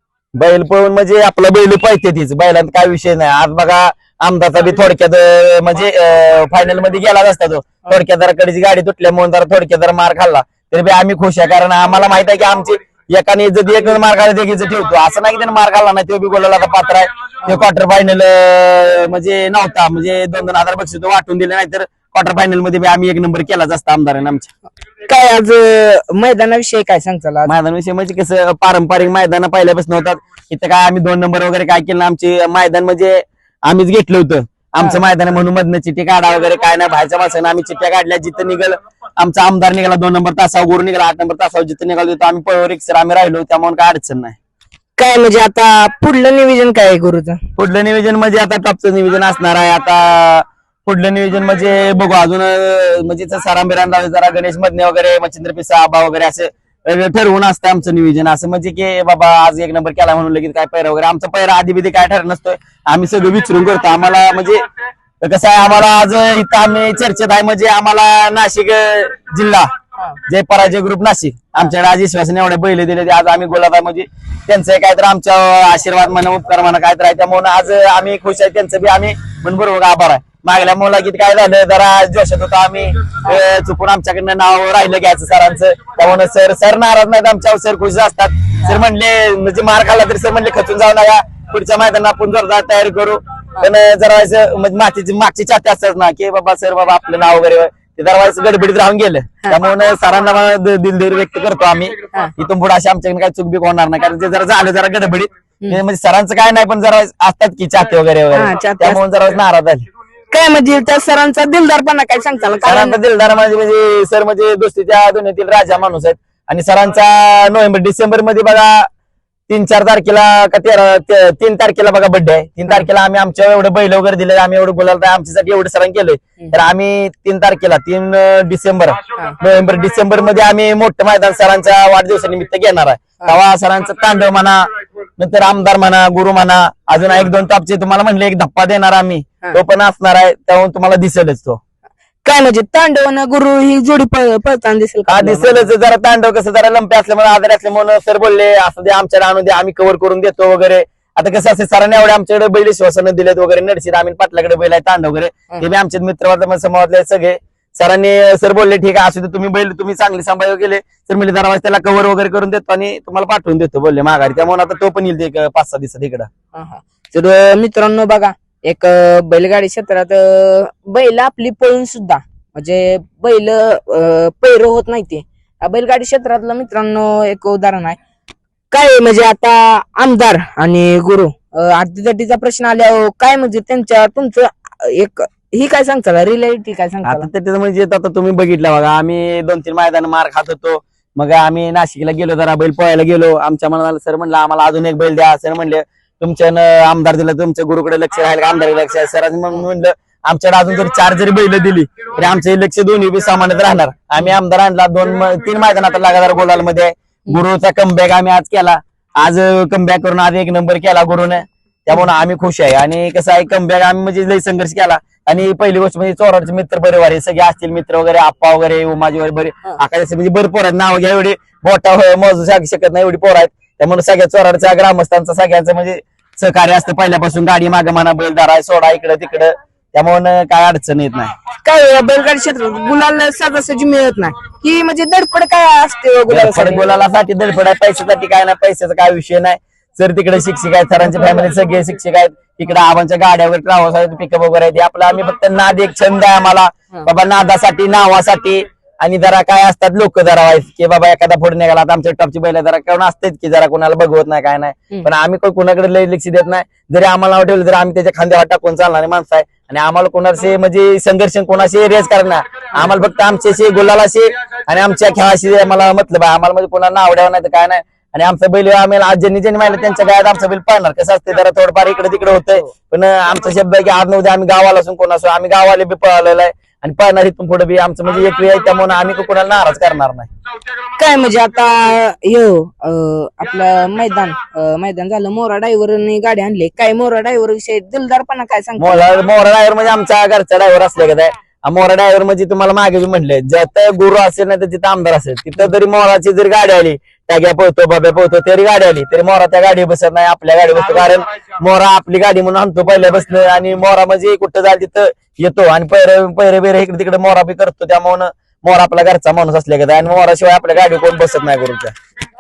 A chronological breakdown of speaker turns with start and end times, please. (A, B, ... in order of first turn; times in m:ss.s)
0:00.4-0:24.5 A
0:25.1-0:27.5 B
0:27.5-0:44.4 A
0:45.0-0:47.4 B
0:47.6-1:04.7 A
1:05.2-1:09.7 A
1:10.3-1:49.9 A
1:48.3-1:49.0 B
1:50.3-1:53.0 B
1:52.7-1:58.9 A
1:59.5-2:14.7 A
2:15.2-2:21.6 A
2:22.2-2:25.7 B
2:25.1-2:46.3 A
2:46.6-2:58.0 B
2:58.7-3:07.3 B
3:07.0-3:51.3 A
3:51.6-3:56.9 B
3:56.3-4:40.3 A
4:41.0-4:49.1 B
4:48.8-5:11.9 A